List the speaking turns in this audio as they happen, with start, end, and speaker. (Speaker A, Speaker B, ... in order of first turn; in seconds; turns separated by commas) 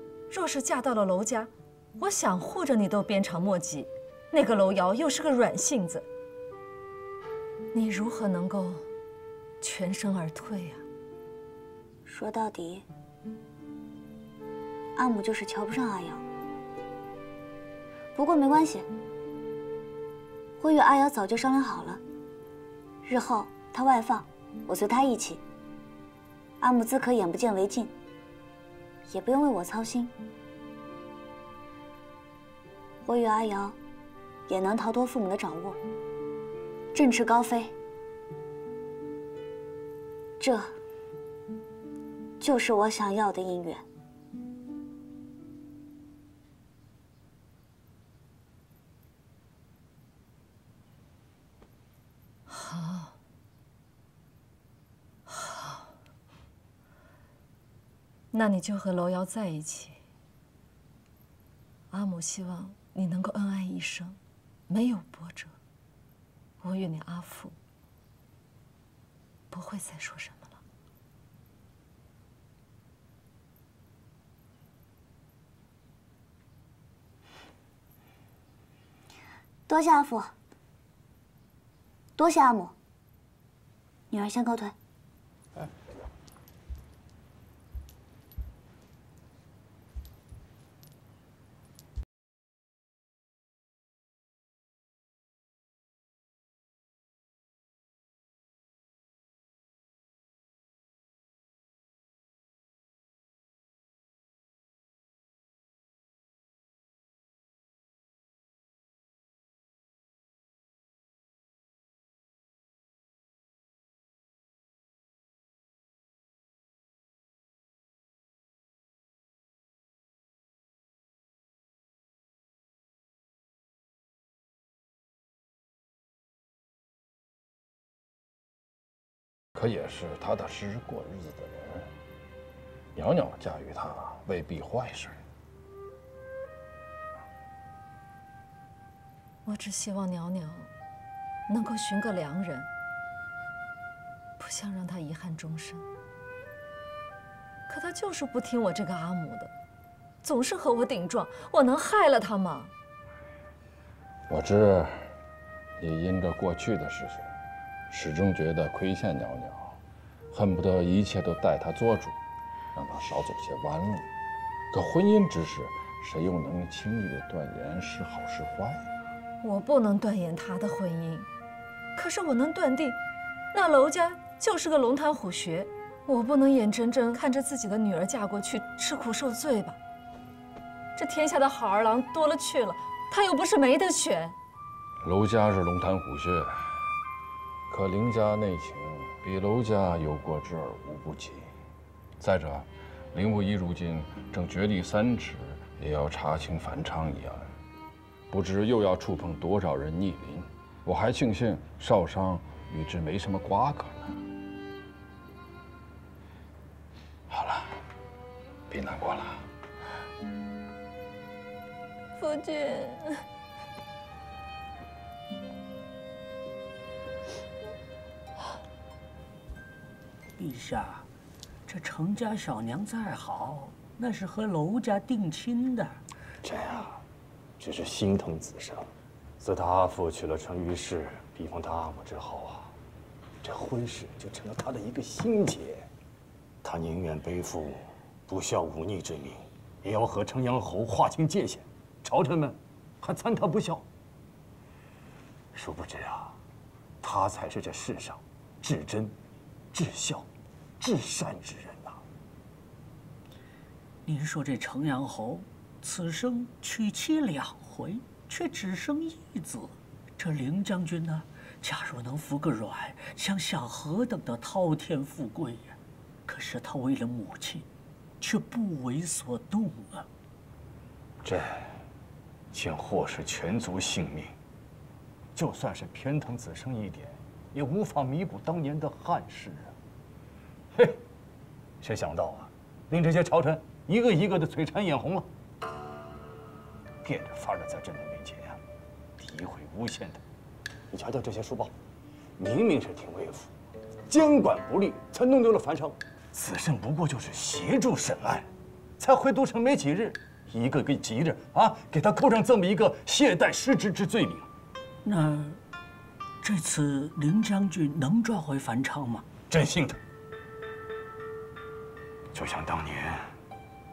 Speaker A: 0.3-6.1, Speaker A: 7.7-8.9, Speaker A: 9.6-10.8, Speaker B: 12.1-12.8, Speaker B: 14.9-16.2, Speaker B: 18.1-18.9, Speaker B: 20.6-22.0, Speaker B: 23.1-25.4, Speaker B: 26.6-27.9, Speaker B: 29.1-30.1, Speaker B: 33.0-33.8, Speaker B: 34.5-35.8, Speaker B: 36.9-37.7, Speaker B: 40.4-40.8, Speaker B: 42.4-43.8, Speaker A: 52.5-53.2, Speaker A: 55.3-55.9, Speaker A: 58.3-60.0, Speaker A: 61.9-64.2, Speaker A: 64.7-65.5, Speaker A: 66.6-67.5, Speaker A: 69.5-70.6, Speaker B: 79.7-80.3, Speaker B: 82.2-82.8, Speaker B: 84.1-84.8, Speaker C: 129.6-131.9, Speaker C: 132.9-135.2, Speaker A: 139.4-140.7, Speaker A: 141.5-142.7, Speaker A: 144.4-145.9, Speaker A: 147.7-149.5, Speaker A: 150.2-152.7, Speaker C: 154.3-155.1, Speaker C: 155.8-157.3, Speaker C: 157.9-159.8, Speaker C: 160.3-162.2, Speaker C: 162.8-164.1, Speaker C: 164.7-168.9, Speaker A: 169.4-171.3, Speaker A: 171.9-173.0, Speaker A: 173.5-179.8, Speaker A: 180.9-184.3, Speaker C: 185.0-186.6, Speaker C: 187.7-191.5, Speaker C: 192.2-197.5, Speaker C: 198.3-204.2, Speaker C: 207.3-207.8, Speaker C: 208.7-209.4, Speaker A: 212.2-213.2, Speaker D: 220.4-221.1, Speaker D: 221.7-226.0, Speaker E: 226.4-227.0, Speaker E: 227.6-232.7, Speaker E: 233.4-235.9, Speaker E: 236.6-243.8, Speaker E: 245.5-246.4, Speaker E: 247.0-249.1, Speaker E: 249.7-250.3, Speaker E: 250.8-252.0, Speaker D: 254.1-267.7, Speaker D: 268.2-270.1, Speaker E: 271.2-271.7, Speaker E: 272.5-274.3, Speaker E: 275.4-279.7, Speaker E: 281.8-285.3, Speaker E: 287.0-288.6, Speaker E: 289.2-290.2, Speaker E: 290.9-291.7, Speaker E: 292.4-293.5, Speaker E: 294.1-298.5, Speaker E: 299.0-304.5, Speaker D: 305.1-305.6, Speaker D: 306.4-309.3, Speaker E: 309.5-310.0, Speaker E: 312.3-313.2